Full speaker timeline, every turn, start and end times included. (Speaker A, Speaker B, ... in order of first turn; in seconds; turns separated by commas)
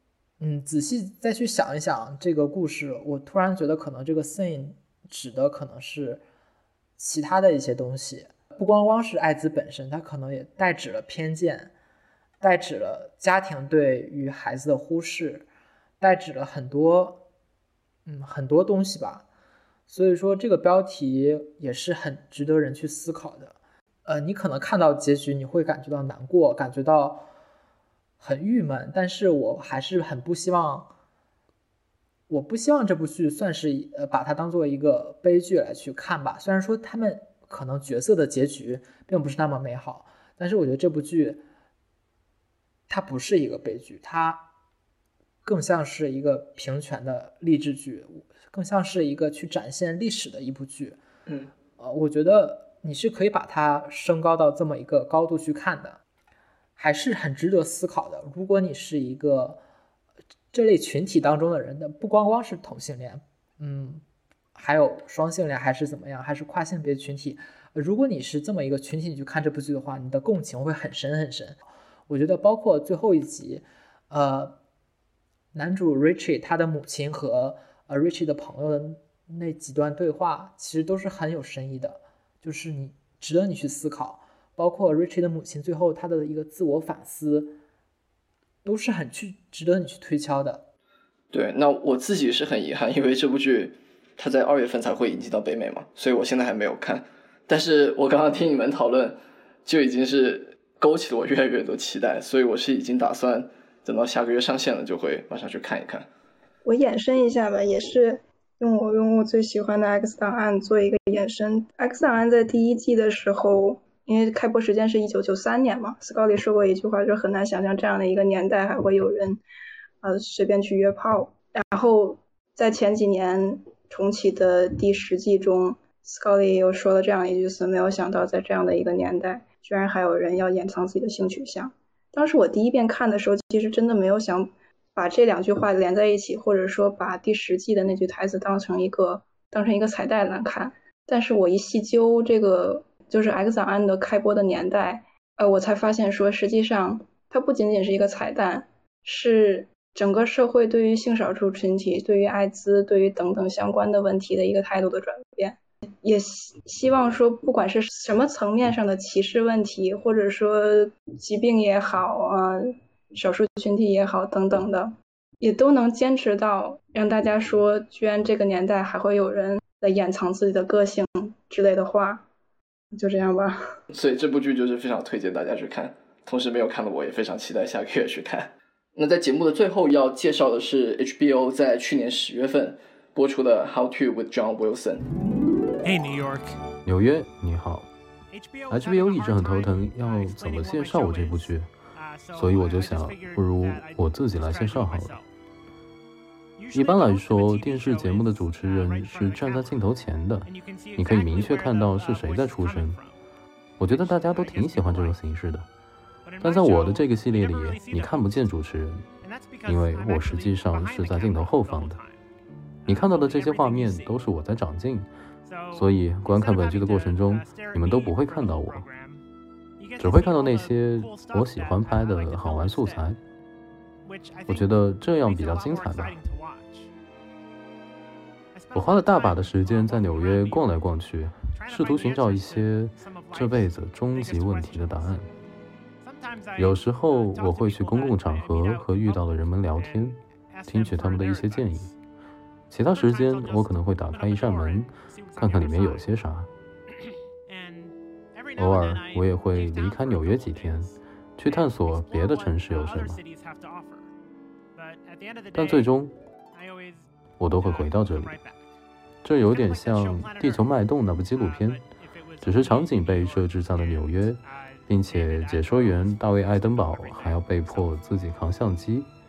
Speaker A: 0.4-6.2, Speaker A: 7.0-11.7, Speaker A: 12.4-15.4, Speaker A: 16.0-17.2, Speaker A: 18.1-19.2, Speaker A: 19.9-27.3, Speaker A: 28.2-30.9, Speaker A: 32.3-41.4, Speaker A: 42.9-44.5, Speaker A: 45.4-51.0, Speaker A: 51.8-56.0, Speaker A: 56.8-59.6, Speaker A: 60.5-64.0, Speaker A: 64.5-74.6, Speaker A: 75.5-87.6, Speaker A: 88.6-90.7, Speaker B: 91.3-106.1, Speaker C: 106.6-119.4, Speaker C: 120.0-172.2, Speaker C: 172.9-173.6, Speaker B: 173.9-185.1, Speaker D: 185.8-186.6, Speaker E: 186.8-187.9, Speaker D: 188.3-195.3, Speaker E: 188.7-191.7, Speaker E: 192.3-195.2, Speaker D: 196.6-199.8, Speaker E: 196.7-203.0, Speaker D: 200.4-203.2, Speaker E: 203.8-205.7, Speaker D: 203.8-205.2, Speaker D: 206.2-208.6, Speaker E: 206.4-209.1, Speaker D: 209.2-212.2, Speaker E: 209.6-212.0, Speaker D: 212.8-214.2, Speaker E: 212.8-215.1, Speaker D: 215.4-219.2, Speaker E: 215.7-218.8, Speaker D: 219.8-223.1, Speaker E: 220.0-223.2, Speaker D: 224.0-226.9, Speaker E: 224.5-226.2, Speaker D: 228.5-230.8, Speaker E: 228.7-235.3, Speaker D: 231.4-235.3, Speaker D: 236.0-241.9, Speaker E: 236.6-241.9, Speaker E: 242.7-246.5, Speaker D: 242.8-246.1, Speaker D: 247.5-254.1, Speaker E: 248.6-253.2, Speaker D: 254.7-255.9, Speaker E: 255.5-256.1, Speaker D: 256.5-258.7, Speaker E: 257.4-258.4, Speaker E: 259.2-261.8, Speaker D: 259.5-268.2, Speaker E: 262.4-269.1